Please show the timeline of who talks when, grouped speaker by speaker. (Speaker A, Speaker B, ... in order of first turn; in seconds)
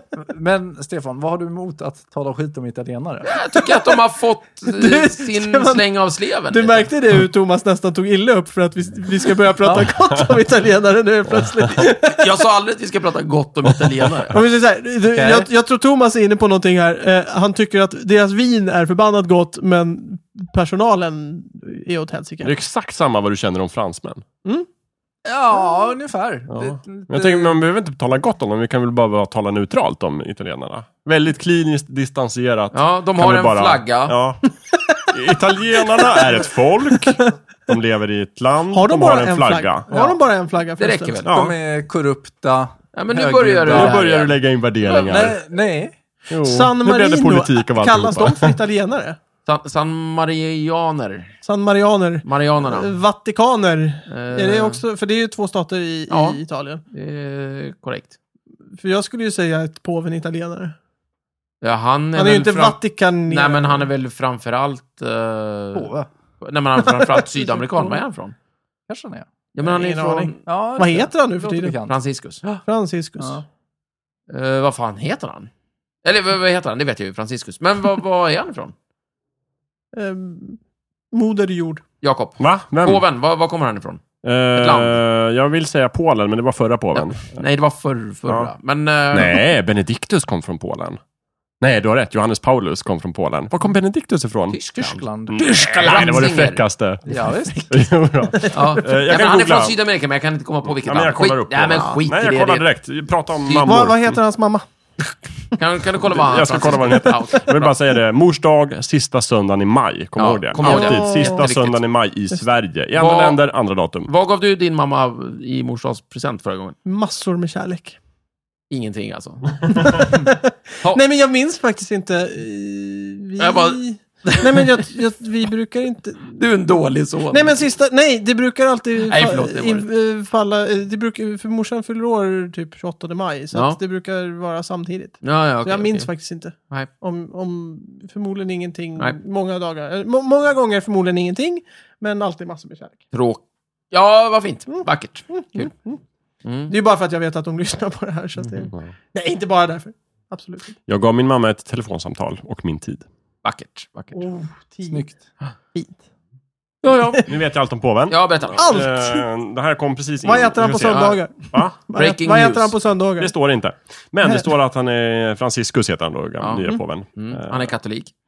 Speaker A: 0.2-3.3, 15.1-15.5, 25.2-27.6, 39.9-40.2, 41.3-44.0, 44.9-45.9, 65.8-66.1, 68.9-69.3, 70.5-72.6, 94.8-95.4, 97.1-97.9, 154.9-155.2
Speaker B: 3.2-6.9, 11.8-14.4, 32.7-34.2, 40.8-41.4, 42.9-44.4, 44.9-45.2, 49.5-51.3, 52.2-52.9, 54.1-54.8, 56.1-56.4, 56.9-58.1, 61.6-68.3, 69.5-70.4, 71.9-72.4, 74.3-75.5, 76.0-78.7, 82.0-84.0, 84.5-85.0, 87.0-89.4, 94.5-96.6, 98.5-102.7, 103.5-103.9, 105.6-107.7, 110.2-111.8, 113.0-113.4, 114.1-116.8, 118.7-120.0, 123.4-124.8, 126.3-127.6, 129.1-129.9, 133.5-133.8, 135.2-136.1, 143.1-145.7, 146.4-146.7, 153.4-154.2, 156.8-157.2, 158.1-158.8, 162.0-162.8, 166.4-168.1
Speaker C: 4.7-5.8, 6.5-12.2, 14.3-22.5, 36.0-36.4, 38.7-41.2, 46.4-49.2, 51.4-56.8, 58.8-60.8, 62.1-63.9, 66.8-68.0, 69.6-71.8, 72.6-73.4, 79.9-80.6, 81.1-81.8, 103.7-104.7, 110.6-111.5, 116.8-118.0, 119.7-126.3, 127.3-143.0, 144.7-146.0, 146.7-150.8, 154.2-155.1, 155.7-156.0, 156.9-157.3, 158.6-159.2, 160.2-163.3
Speaker D: 13.8-14.1, 22.4-24.2, 26.5-34.4, 35.1-39.9, 41.2-41.5, 43.7-45.4, 46.3-48.5, 82.4-83.0, 84.2-87.5, 88.3-88.5, 89.1-91.0, 91.6-94.6, 95.3-99.8, 100.7-104.2, 106.0-114.1, 150.9-153.1, 157.3-161.8, 163.2-167.7